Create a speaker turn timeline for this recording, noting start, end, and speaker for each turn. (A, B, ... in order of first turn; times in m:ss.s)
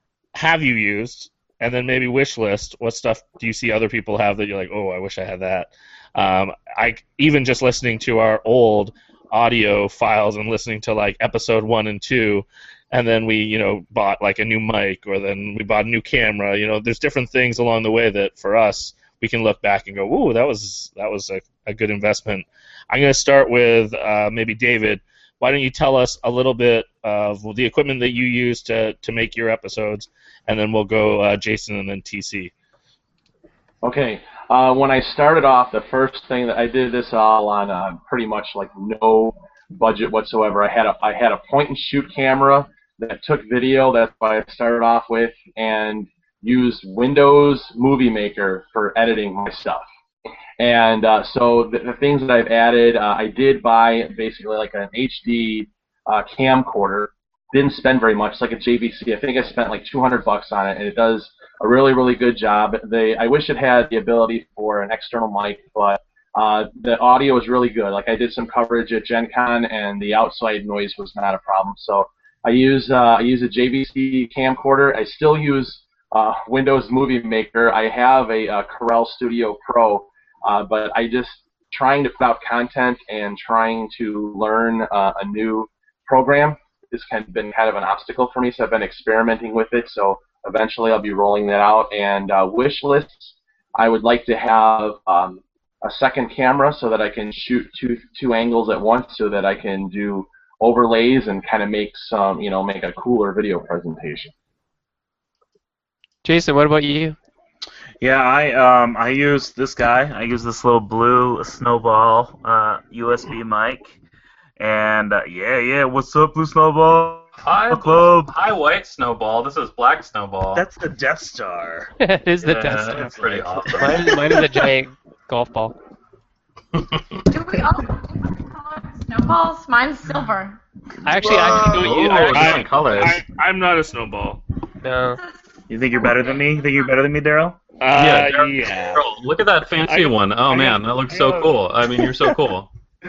0:00.3-0:32.5 A
0:33.8-0:49.9 B
0:50.6-1:44.3 B
1:46.2-1:47.2 C
1:48.0-1:54.0 D
1:54.6-1:58.3 D
1:57.4-2:00.6 E
2:00.6-2:01.9 D
2:02.0-2:05.8 C
2:02.4-2:04.4 E
2:02.7-2:04.6 D
2:07.3-2:10.6 F
2:11.0-2:13.0 C
2:11.1-2:12.2 D
2:11.2-2:13.2 E
2:12.3-2:14.4 A
2:14.8-2:15.2 C
2:15.2-2:16.7 F
2:15.7-2:17.6 D
2:17.8-2:19.0 A
2:18.0-2:22.7 E
2:19.8-2:21.5 A